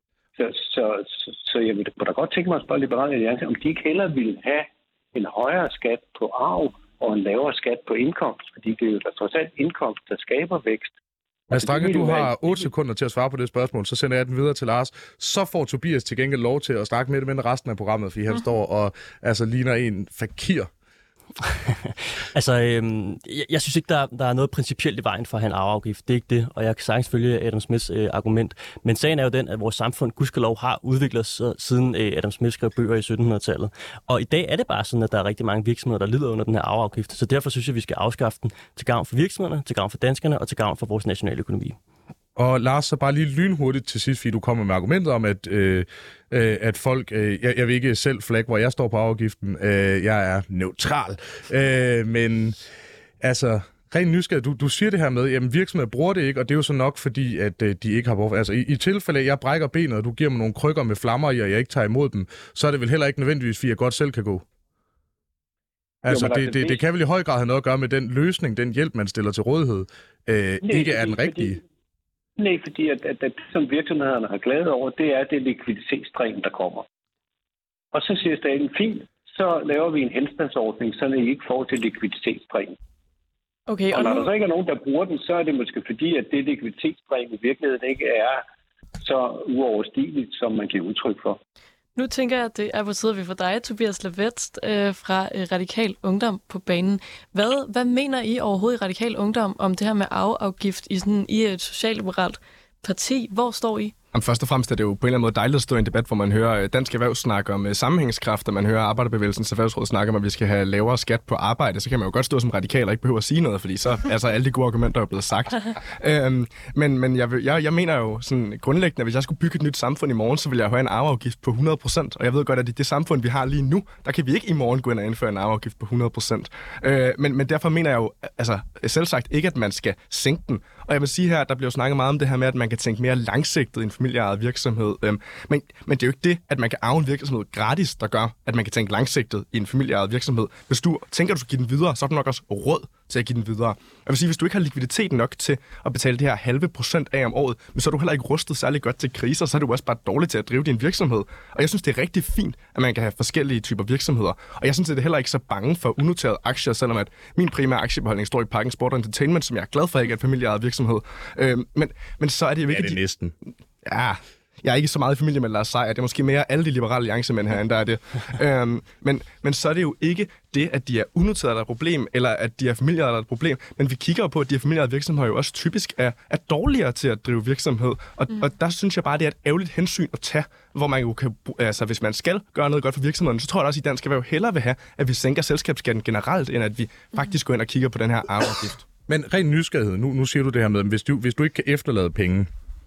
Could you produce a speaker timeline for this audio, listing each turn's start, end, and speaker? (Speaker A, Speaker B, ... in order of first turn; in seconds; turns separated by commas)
Speaker A: 0.4-10.9, Speaker B: 11.5-20.7, Speaker A: 11.5-12.7, Speaker C: 21.4-41.8, Speaker B: 42.4-52.6, Speaker B: 53.2-64.5, Speaker B: 66.0-71.6, Speaker A: 66.1-66.8, Speaker A: 70.6-71.6, Speaker A: 72.4-76.9, Speaker A: 77.9-82.8, Speaker D: 83.7-84.3, Speaker A: 83.9-88.4, Speaker A: 89.0-91.4, Speaker D: 92.0-103.9, Speaker E: 104.1-163.0, Speaker B: 162.7-163.3, Speaker E: 163.8-188.9, Speaker B: 189.1-192.5